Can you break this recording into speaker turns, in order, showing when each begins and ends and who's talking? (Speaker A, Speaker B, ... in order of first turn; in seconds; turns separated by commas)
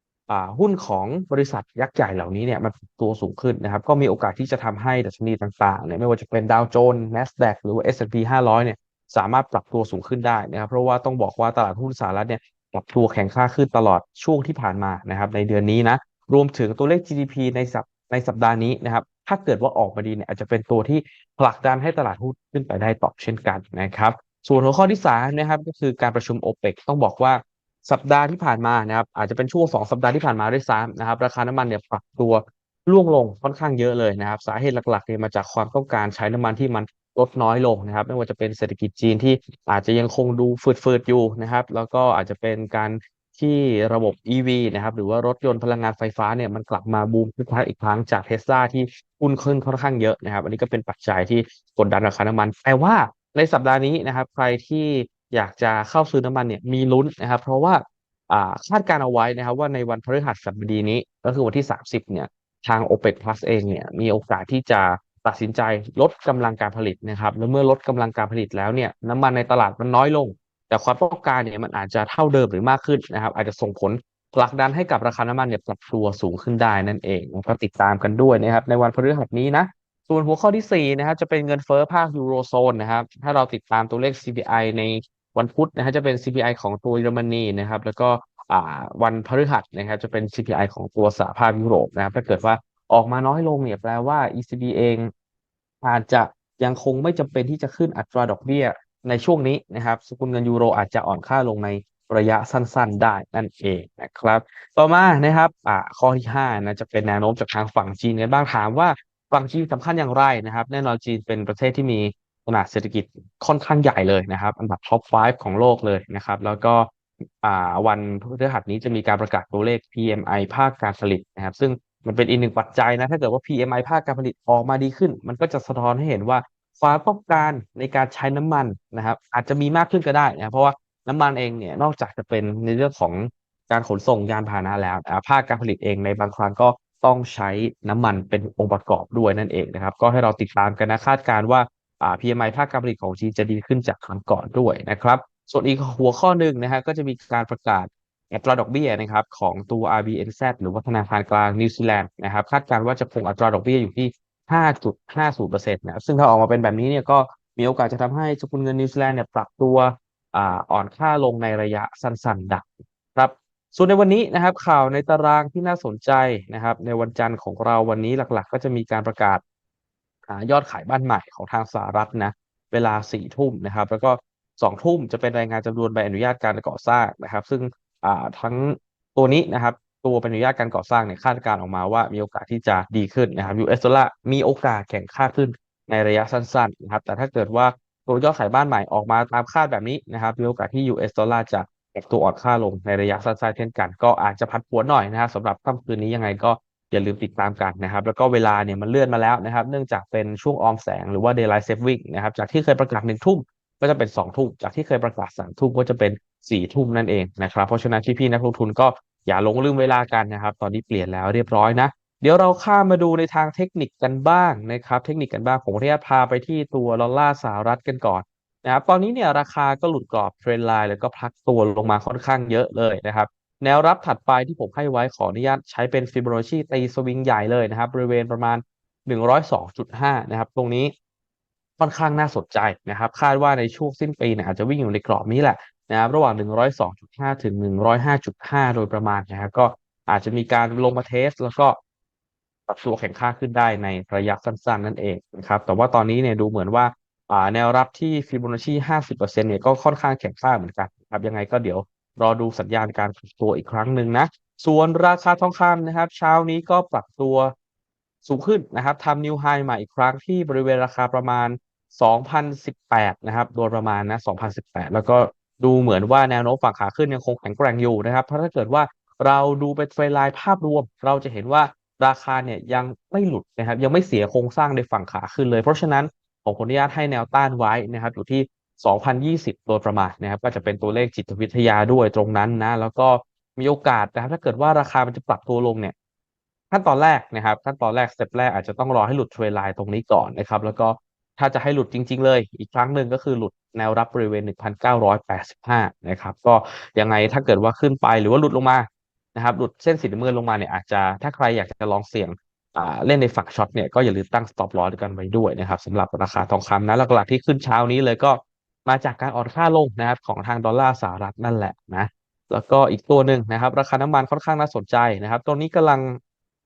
Speaker A: 0.3-95.1, Speaker A: 95.8-116.9, Speaker A: 117.4-169.4, Speaker A: 170.3-230.9, Speaker A: 231.8-241.8, Speaker A: 242.7-257.5, Speaker A: 258.2-285.9, Speaker A: 286.7-316.2